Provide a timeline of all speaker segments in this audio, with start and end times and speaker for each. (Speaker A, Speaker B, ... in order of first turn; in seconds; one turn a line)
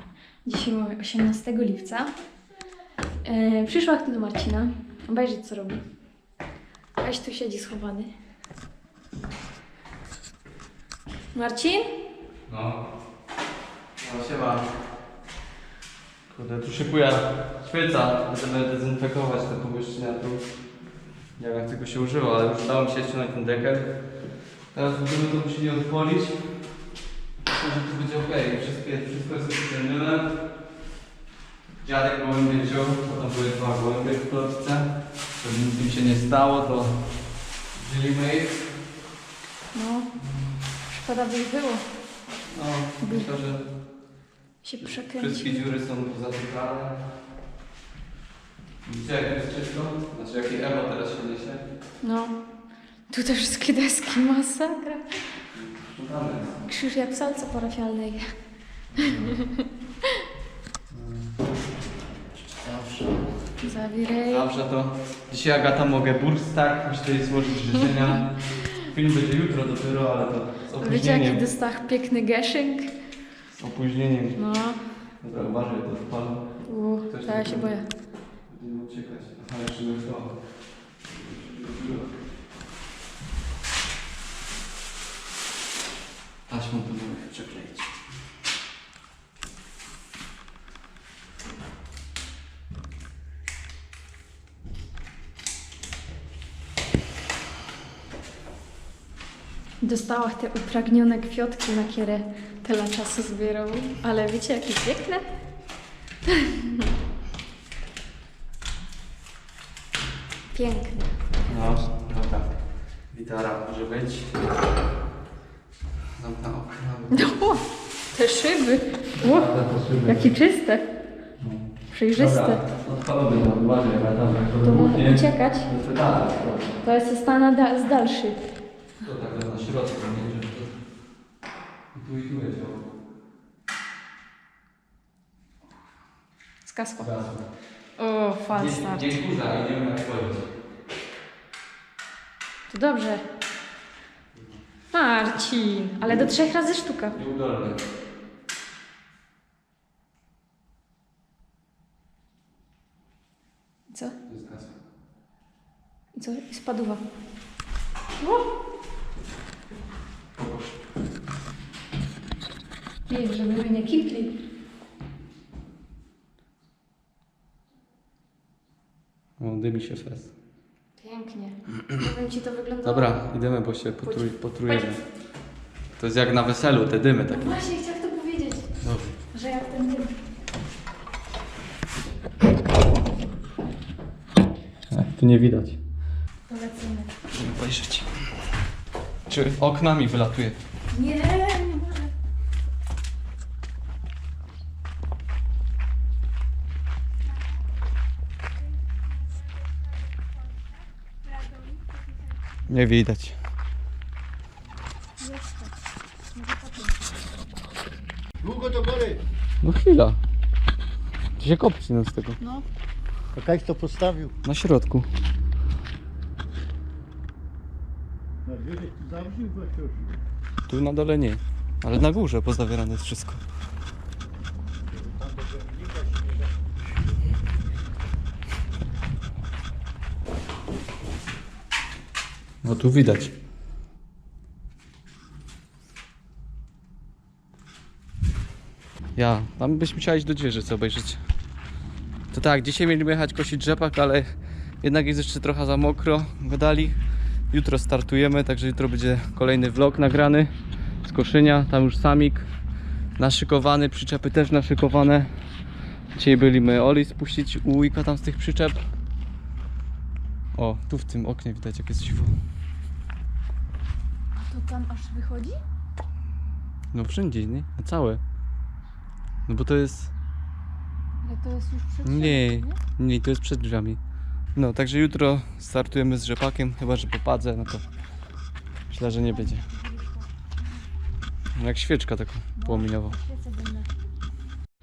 Speaker A: 0.4-2.1
Speaker A: 3.2-5.8
Speaker A: 7.0-8.1
Speaker A: 11.3-11.8
Speaker B: 12.5-12.8
Speaker B: 14.0-14.7
Speaker B: 16.3-20.4
Speaker B: 21.4-23.9
Speaker B: 24.7-26.6
Speaker B: 27.5-30.4
Speaker B: 31.8-37.0
Speaker B: 37.7-38.7
Speaker A: 39.7-40.1
Speaker B: 40.2-40.5
Speaker A: 40.9-41.8
Speaker B: 42.5-43.6
Speaker A: 43.0-43.3
Speaker A: 44.6-45.6
Speaker B: 44.8-47.0
Speaker B: 48.8-51.6
Speaker A: 52.0-52.3
Speaker A: 53.1-55.2
Speaker B: 55.5-56.6
Speaker A: 56.6-58.3
Speaker B: 58.9-59.4
Speaker B: 60.9-61.4
Speaker B: 62.6-63.5
Speaker A: 63.6-64.4
Speaker B: 64.2-71.4
Speaker A: 70.8-72.9
Speaker B: 73.5-74.4
Speaker A: 74.3-74.8
Speaker B: 75.2-76.4
Speaker A: 76.7-77.8
Speaker B: 77.1-77.7
Speaker B: 78.5-80.3
Speaker B: 81.0-82.2
Speaker B: 86.5-88.0
Speaker A: 99.8-105.3
Speaker A: 106.2-106.8
Speaker A: 110.5-111.0
Speaker B: 111.5-112.5
Speaker B: 113.1-114.4
Speaker B: 116.2-117.6
Speaker A: 117.1-119.5
Speaker B: 119.1-120.3
Speaker A: 120.0-120.8
Speaker B: 121.4-126.8
Speaker A: 121.9-122.6
Speaker A: 124.6-125.7
Speaker A: 126.8-128.4
Speaker B: 129.0-130.8
Speaker B: 131.9-132.8
Speaker A: 136.6-137.1
Speaker B: 137.0-137.4
Speaker A: 138.0-139.1
Speaker B: 138.5-140.5
Speaker A: 142.7-143.2
Speaker B: 144.3-144.6
Speaker A: 144.9-147.2
Speaker B: 146.0-146.3
Speaker B: 147.1-147.8
Speaker A: 153.9-154.2
Speaker B: 154.3-154.7
Speaker A: 156.1-157.0
Speaker B: 160.4-160.8
Speaker A: 163.1-164.3
Speaker B: 169.4-170.3
Speaker A: 171.0-173.1
Speaker B: 172.8-175.0
Speaker A: 174.0-174.9
Speaker B: 176.0-177.6
Speaker A: 177.3-178.7
Speaker B: 178.8-179.2
Speaker A: 179.3-180.2
Speaker B: 184.9-185.8
Speaker A: 186.5-187.1
Speaker B: 187.3-188.2
Speaker B: 189.3-190.6
Speaker A: 190.9-192.1
Speaker B: 202.7-203.4
Speaker A: 205.2-205.7
Speaker A: 206.3-207.0
Speaker C: 208.4-209.2
Speaker B: 209.6-210.2
Speaker B: 211.4-212.4
Speaker A: 212.4-212.6
Speaker C: 213.3-214.3
Speaker B: 214.4-215.1
Speaker C: 218.4-220.1
Speaker B: 220.7-223.4
Speaker C: 225.2-226.2
Speaker B: 232.6-233.3
Speaker B: 239.2-241.2
Speaker B: 242.3-247.0
Speaker B: 247.5-250.5
Speaker B: 251.0-252.4
Speaker B: 253.2-255.3
Speaker B: 256.1-258.8
Speaker B: 260.5-262.4
Speaker A: 264.4-265.6
Speaker B: 266.9-268.2
Speaker B: 269.5-270.1
Speaker A: 271.2-272.8
Speaker B: 272.0-274.0
Speaker B: 274.5-277.8
Speaker B: 278.9-279.6
Speaker A: 279.0-280.3
Speaker B: 281.5-283.1
Speaker A: 282.6-283.9